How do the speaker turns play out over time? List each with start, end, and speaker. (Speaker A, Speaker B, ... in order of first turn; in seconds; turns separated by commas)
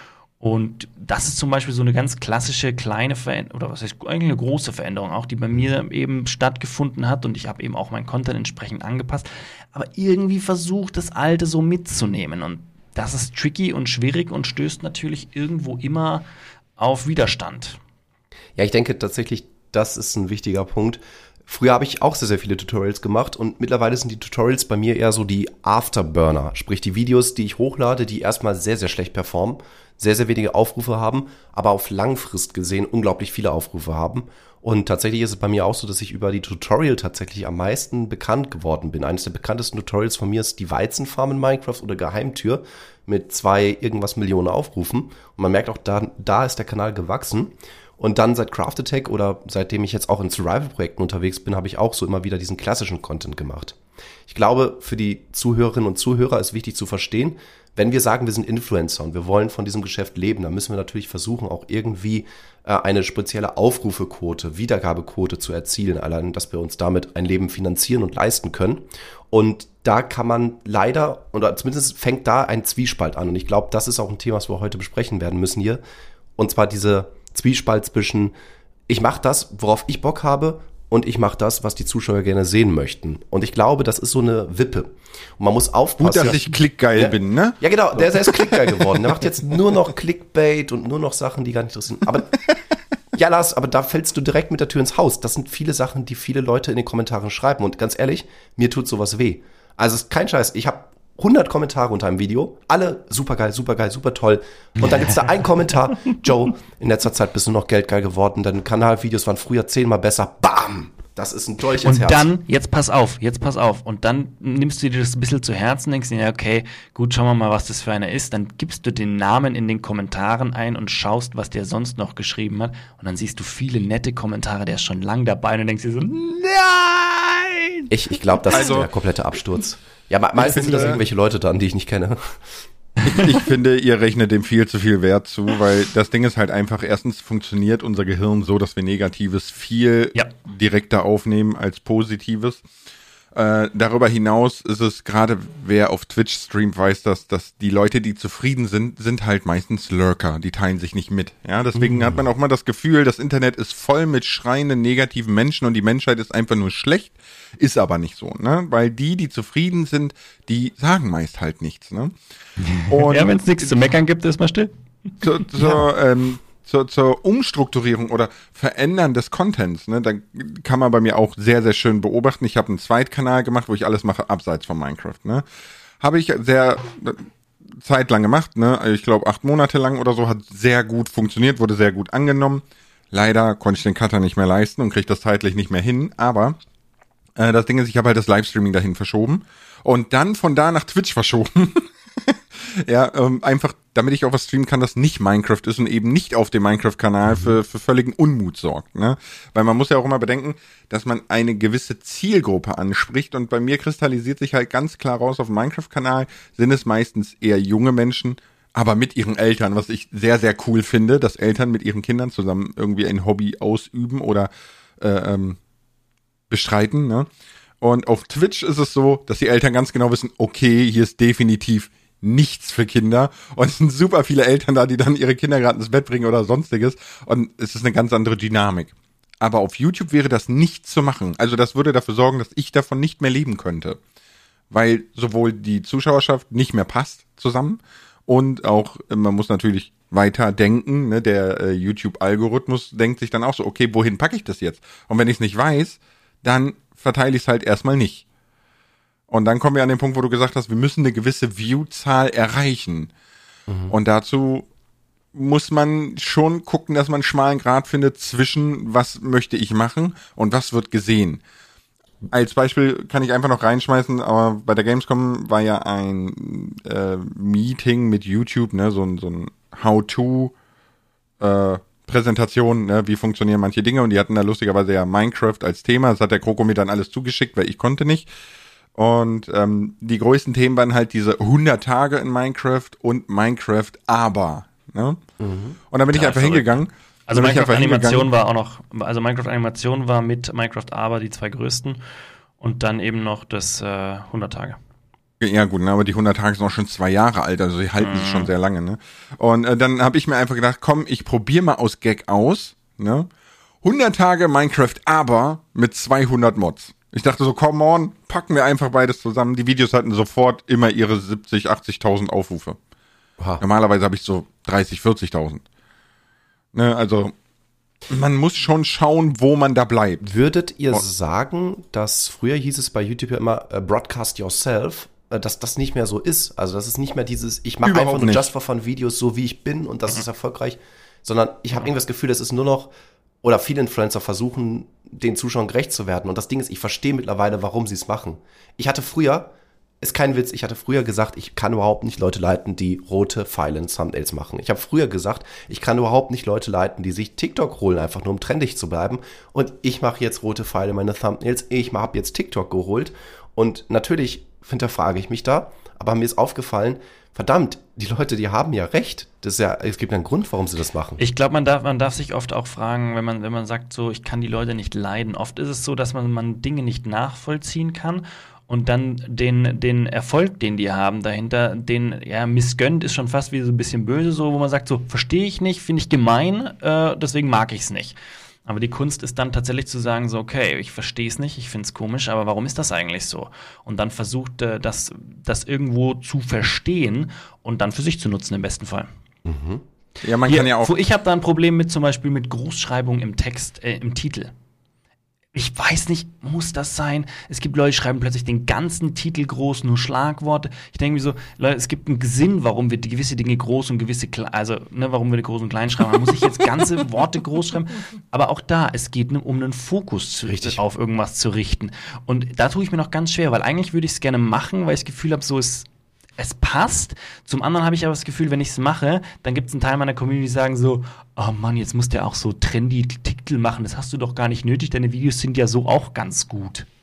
Speaker A: 0.4-16.2, Speaker A: 16.8-17.8, Speaker B: 18.6-75.8, Speaker B: 76.4-78.3, Speaker B: 78.9-92.4, Speaker C: 86.0-89.0, Speaker B: 93.1-112.3, Speaker A: 104.8-105.3, Speaker A: 111.8-128.7, Speaker B: 127.9-132.4, Speaker C: 128.5-128.9, Speaker C: 130.4-131.0, Speaker A: 130.4-131.0, Speaker A: 133.0-133.4, Speaker C: 133.0-142.6, Speaker C: 143.3-162.2, Speaker A: 162.6-165.8, Speaker C: 162.9-163.7, Speaker C: 165.2-175.4, Speaker C: 176.0-186.6, Speaker C: 187.4-215.6, Speaker C: 216.5-217.3, Speaker C: 217.8-234.0, Speaker C: 234.7-248.2, Speaker C: 249.3-253.1, Speaker B: 253.7-253.9, Speaker C: 253.9-254.7, Speaker C: 255.3-261.4, Speaker C: 262.3-270.5, Speaker C: 271.4-278.3, Speaker C: 278.9-285.2, Speaker B: 285.4-285.8, Speaker C: 285.9-288.3, Speaker A: 286.1-286.7, Speaker A: 287.3-292.0, Speaker A: 292.6-294.8, Speaker C: 295.4-303.3, Speaker A: 298.0-298.5, Speaker C: 303.8-312.8, Speaker C: 313.6-315.6, Speaker C: 316.7-317.3, Speaker C: 318.1-320.3, Speaker B: 320.2-332.9, Speaker C: 327.8-328.4, Speaker B: 333.4-361.2, Speaker A: 361.2-389.1, Speaker B: 389.5-389.8, Speaker C: 390.2-390.9, Speaker A: 390.4-394.5, Speaker A: 395.5-415.9, Speaker B: 410.5-410.8, Speaker A: 416.4-426.9